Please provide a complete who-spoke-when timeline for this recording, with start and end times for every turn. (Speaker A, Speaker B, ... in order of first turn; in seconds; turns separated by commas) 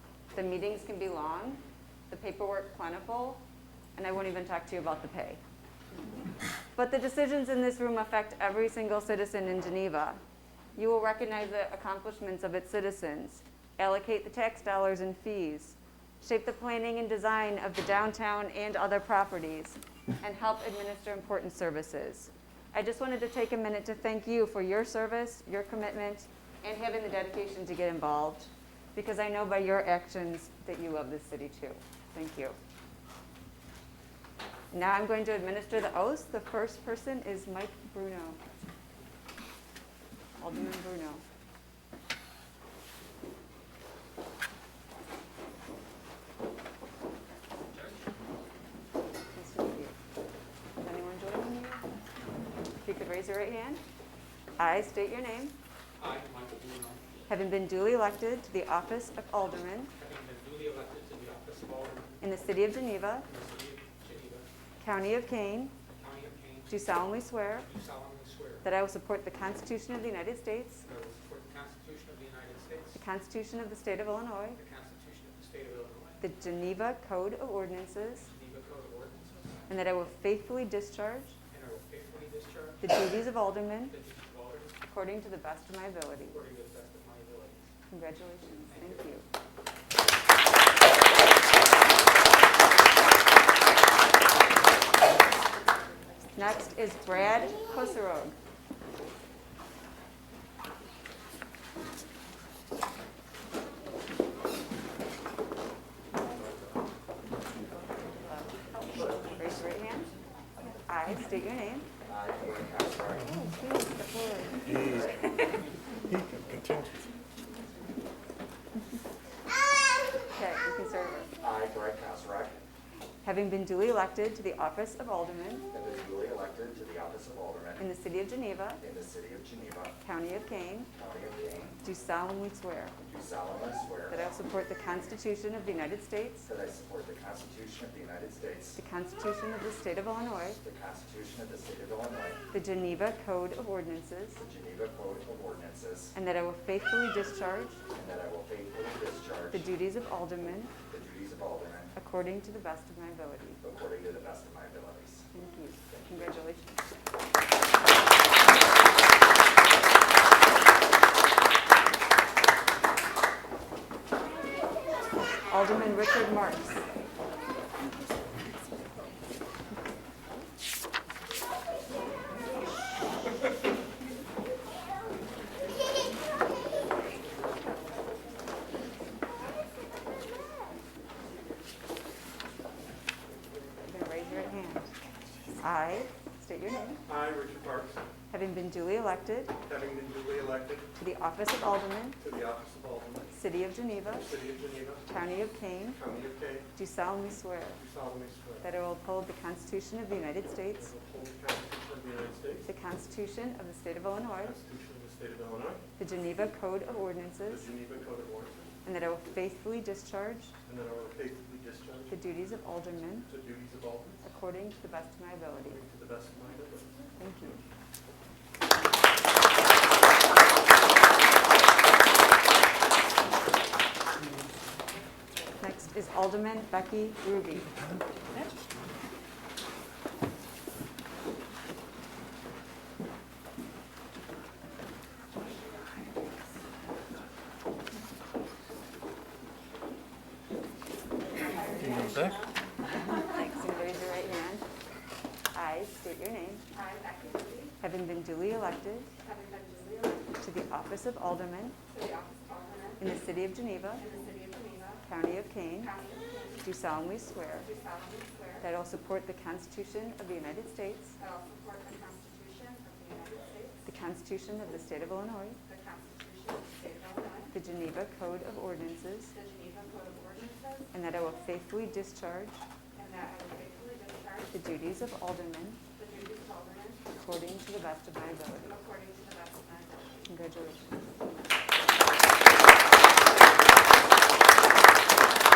Speaker A: 0.3-3.4, Speaker A: 3.9-5.4, Speaker A: 6.7-10.2, Speaker A: 10.8-32.6, Speaker A: 34.7-38.4, Speaker A: 40.4-41.2, Speaker B: 47.7-48.0, Speaker A: 49.3-49.9, Speaker A: 50.8-51.8, Speaker A: 52.8-53.8, Speaker A: 54.6-55.5, Speaker B: 56.0-57.2, Speaker A: 57.3-59.9, Speaker B: 59.9-62.1, Speaker A: 62.2-63.3, Speaker B: 63.2-64.5, Speaker A: 64.8-65.7, Speaker B: 66.0-66.8, Speaker A: 66.7-67.7, Speaker B: 67.6-68.7, Speaker A: 68.6-70.8, Speaker B: 70.8-73.0, Speaker A: 72.9-74.6, Speaker B: 74.5-76.2, Speaker A: 76.2-78.3, Speaker B: 78.2-79.7, Speaker A: 79.7-81.4, Speaker B: 81.5-82.9, Speaker A: 82.8-83.9, Speaker B: 83.8-84.8, Speaker A: 84.9-86.4, Speaker B: 86.2-87.7, Speaker A: 87.9-89.2, Speaker B: 88.7-89.0, Speaker A: 96.3-98.3, Speaker A: 108.1-110.1, Speaker A: 110.8-111.9, Speaker C: 112.0-113.3, Speaker A: 113.2-115.6, Speaker C: 114.7-115.2, Speaker A: 120.3-121.3, Speaker C: 121.4-122.6, Speaker A: 123.2-125.7, Speaker C: 125.7-127.9, Speaker A: 127.8-128.8, Speaker C: 128.8-130.0, Speaker A: 130.0-130.9, Speaker C: 130.9-131.8, Speaker A: 131.8-132.9, Speaker C: 133.0-134.2, Speaker A: 134.1-136.5, Speaker C: 136.4-138.8, Speaker A: 138.8-140.6, Speaker C: 140.6-142.4, Speaker A: 142.5-144.4, Speaker C: 144.4-146.1, Speaker A: 146.1-147.8, Speaker C: 147.9-149.7, Speaker A: 149.5-150.7, Speaker C: 150.9-151.9, Speaker A: 151.9-153.6, Speaker C: 153.6-155.3, Speaker A: 155.3-156.8, Speaker A: 165.5-166.8, Speaker A: 183.5-184.9, Speaker A: 185.6-187.0, Speaker D: 187.1-188.0, Speaker A: 188.3-189.5, Speaker D: 189.6-190.9, Speaker A: 191.0-192.2, Speaker D: 192.2-193.4, Speaker A: 193.3-194.3, Speaker D: 194.1-195.1, Speaker A: 195.1-196.0, Speaker D: 195.9-196.7, Speaker A: 196.7-197.8, Speaker D: 197.8-198.7, Speaker A: 198.6-200.9, Speaker D: 200.7-202.7, Speaker A: 202.7-204.6, Speaker D: 204.4-205.8, Speaker A: 206.0-207.7, Speaker D: 207.4-208.7, Speaker A: 208.8-210.5, Speaker D: 210.7-212.2, Speaker A: 212.1-213.3, Speaker D: 213.2-214.2, Speaker A: 214.2-215.8, Speaker D: 215.7-217.6, Speaker A: 217.2-217.6, Speaker A: 225.6-227.7, Speaker A: 241.6-242.3, Speaker D: 241.6-242.3, Speaker A: 242.9-244.6, Speaker A: 245.5-246.6, Speaker E: 247.2-247.6, Speaker A: 247.8-249.1, Speaker E: 249.2-250.2, Speaker A: 250.4-251.8, Speaker E: 251.9-252.9, Speaker A: 253.0-254.1, Speaker E: 254.1-254.9, Speaker A: 255.0-256.0, Speaker A: 256.6-257.7, Speaker A: 258.6-261.2, Speaker E: 261.2-263.6, Speaker D: 263.1-263.5, Speaker A: 263.8-265.6, Speaker E: 265.7-267.4, Speaker A: 267.5-269.4, Speaker E: 269.4-270.8, Speaker A: 270.9-272.6, Speaker E: 272.9-274.4, Speaker A: 274.5-275.8, Speaker E: 276.0-277.0, Speaker A: 277.1-278.9, Speaker E: 278.8-280.0, Speaker A: 280.2-280.9